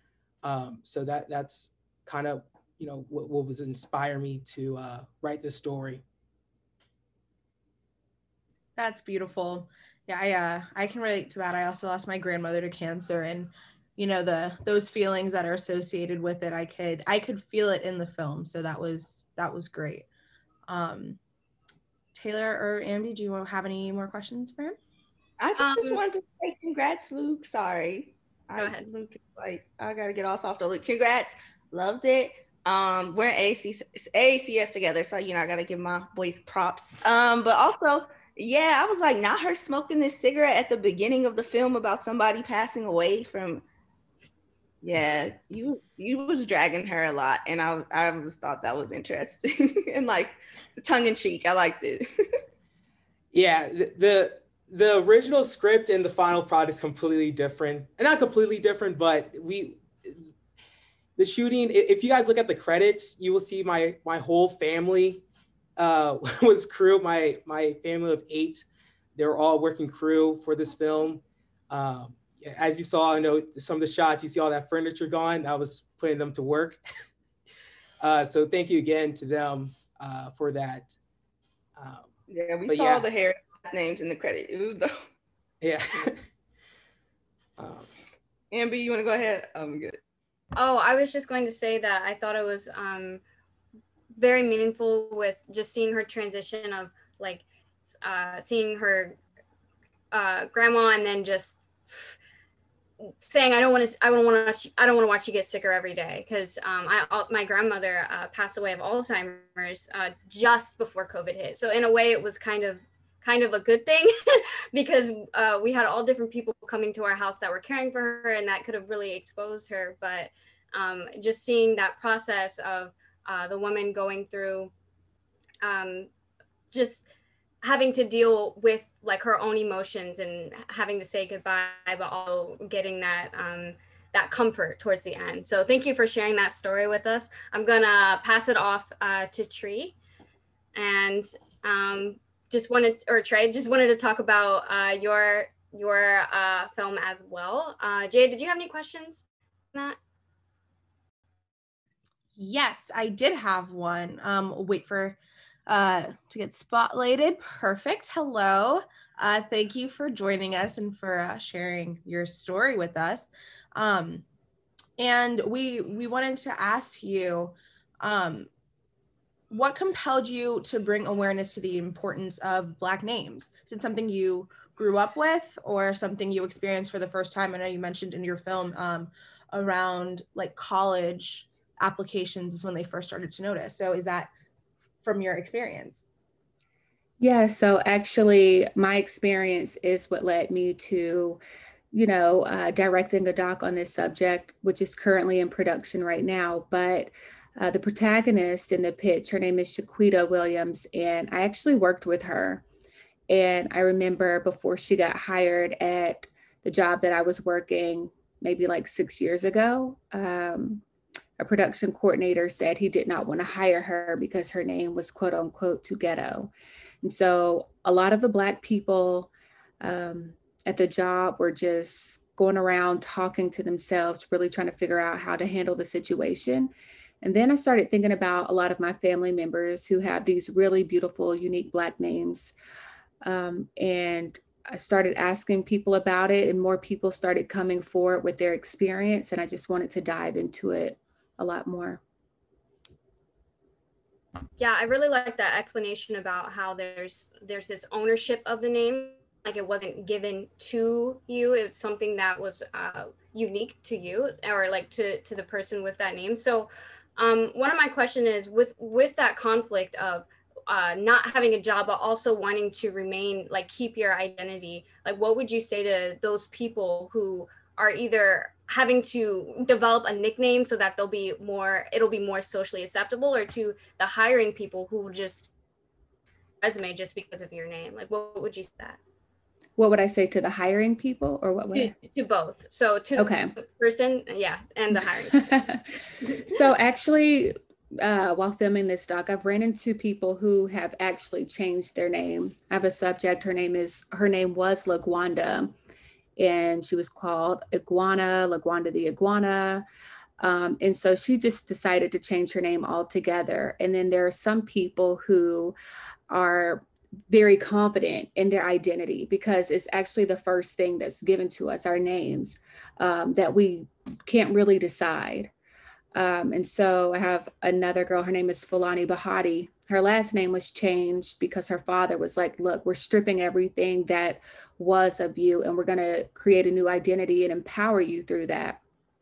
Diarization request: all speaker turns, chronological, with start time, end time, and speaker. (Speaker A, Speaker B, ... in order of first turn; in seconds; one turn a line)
Speaker A: 0.4-6.0
Speaker B: 8.8-20.1
Speaker B: 20.7-21.2
Speaker B: 22.1-24.8
Speaker C: 25.4-43.6
Speaker D: 25.6-26.0
Speaker D: 28.6-28.8
Speaker C: 44.8-52.0
Speaker A: 53.3-60.2
Speaker A: 61.2-65.2
Speaker A: 65.8-76.8
Speaker A: 78.0-80.9
Speaker A: 81.8-82.1
Speaker C: 82.3-85.0
Speaker A: 82.7-83.1
Speaker A: 85.6-86.2
Speaker A: 87.6-87.9
Speaker C: 88.5-90.0
Speaker D: 90.5-93.2
Speaker D: 94.1-99.2
Speaker D: 100.1-102.2
Speaker D: 103.0-124.7
Speaker D: 125.6-126.1
Speaker D: 126.7-127.0
Speaker D: 127.6-139.9
Speaker D: 140.7-149.2
Speaker B: 152.4-164.2
Speaker B: 165.0-168.5
Speaker B: 169.5-184.3
Speaker B: 185.0-186.0
Speaker E: 187.2-191.4
Speaker E: 191.9-202.6
Speaker E: 203.3-210.8
Speaker E: 211.4-216.5
Speaker E: 217.0-219.3
Speaker E: 219.8-232.5
Speaker E: 233.2-242.0
Speaker D: 244.6-275.5
Speaker D: 276.6-279.0
Speaker E: 279.8-281.9
Speaker D: 281.7-285.6
Speaker E: 283.1-283.5
Speaker E: 285.2-295.7
Speaker E: 296.4-299.8
Speaker E: 300.4-305.7
Speaker E: 306.3-315.5
Speaker E: 316.1-328.8